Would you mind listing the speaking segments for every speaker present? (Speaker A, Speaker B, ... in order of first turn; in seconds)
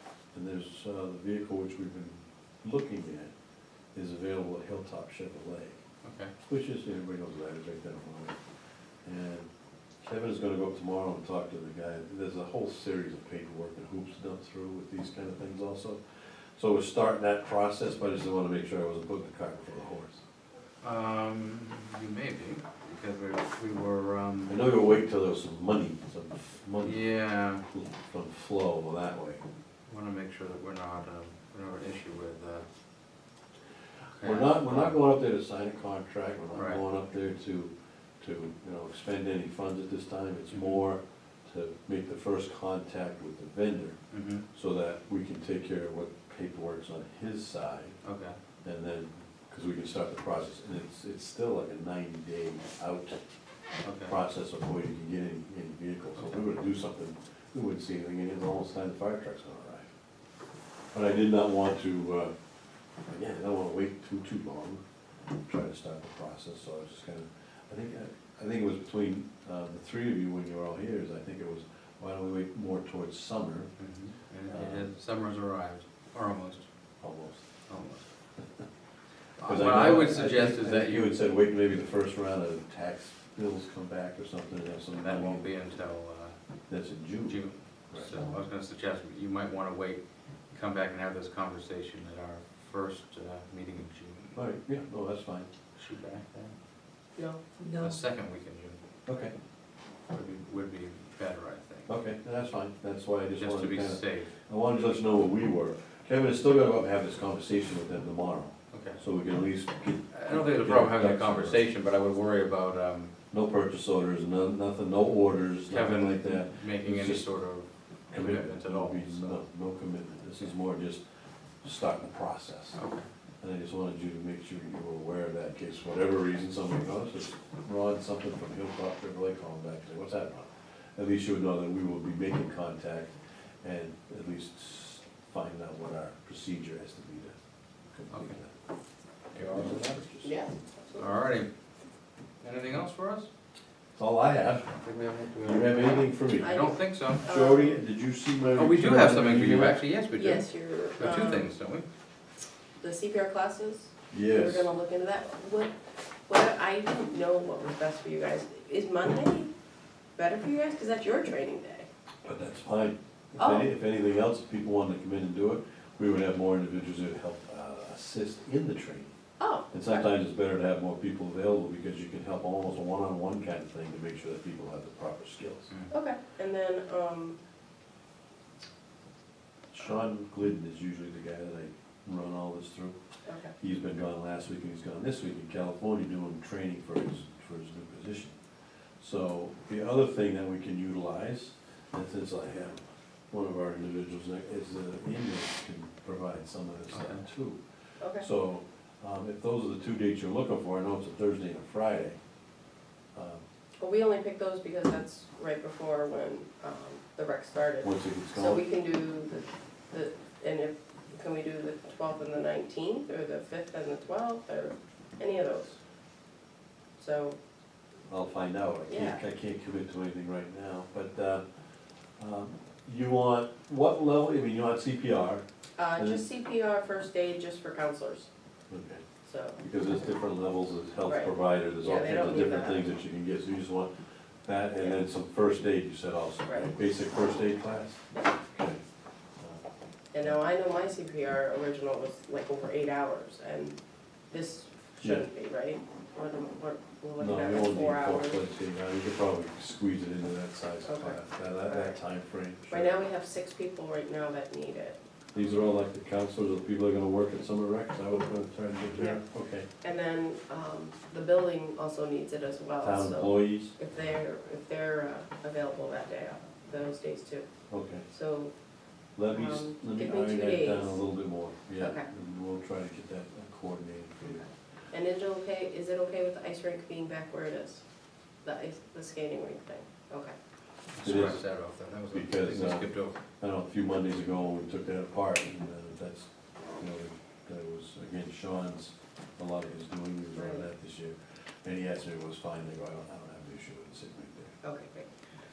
Speaker A: 0.3-3.3, 3.9-5.8, 6.4-8.4, 9.0-9.5, 10.0-16.0, 16.6-20.2, 24.5-27.1, 27.7-29.4, 34.2-44.0, 44.5-48.0, 48.6-53.2, 54.1-59.9, 60.9-62.3, 63.1-64.8, 65.5-73.7, 74.5-74.9, 77.0-77.5, 79.4-85.5, 86.7-88.3, 94.3-95.5, 99.0-99.3, 101.9-111.6, 113.3-117.3, 118.1-121.0, 121.6-122.8, 123.4-137.3, 137.9-138.5, 139.3-140.3, 143.9-144.8, 145.4-146.6, 147.2-149.8, 154.1-154.7, 162.2-169.1, 169.7-175.7, 179.7-183.0, 183.6-188.3, 189.0-197.6, 198.2-202.2, 203.1-203.4, 207.8-208.6, 218.1-221.4, 222.2-225.4, 225.9-226.2, 228.7-229.0, 229.6-233.9, 234.4-238.8, 239.4-239.6, 245.0-245.2, 247.2-253.0, 255.3-259.7, 262.8-263.7, 267.7-268.1, 269.2-274.4, 281.0-281.4, 282.1-282.9, 283.4-294.6
Speaker B: 6.0-6.3, 20.8-24.6, 26.8-27.6, 29.9-32.6, 34.1-35.0, 36.5-36.8, 40.5-40.8, 44.1-44.5, 48.0-48.4, 53.8-54.2, 73.8-76.7, 77.7-78.1, 79.4-81.2, 84.9-86.3, 87.3-94.4, 95.7-96.5, 97.8-98.8, 100.1-101.9, 103.3-104.3, 108.7-109.0, 110.1-113.1, 115.7-119.4, 122.8-123.1, 138.1-138.3, 139.3-140.0, 141.0-141.5, 142.4-143.3, 144.8-147.3, 148.5-151.8, 196.9-197.2, 280.9-283.2
Speaker C: 97.2-97.4, 140.2-141.1, 146.3-147.8, 150.1-151.5, 152.8-155.7, 156.3-159.5, 160.2-161.9, 163.4-163.7, 169.4-170.0, 175.9-177.4, 183.2-183.5, 198.0-198.2, 203.8-215.7, 217.0-217.4, 218.9-219.2, 225.8-228.3, 229.2-229.6, 231.1-232.9, 236.4-236.7, 240.1-243.8, 244.3-248.4, 250.8-251.9, 252.7-255.0, 259.8-267.5, 268.1-268.5, 269.3-271.0, 271.8-272.1, 274.2-277.8, 278.4-280.3, 290.3-290.6, 294.6-295.1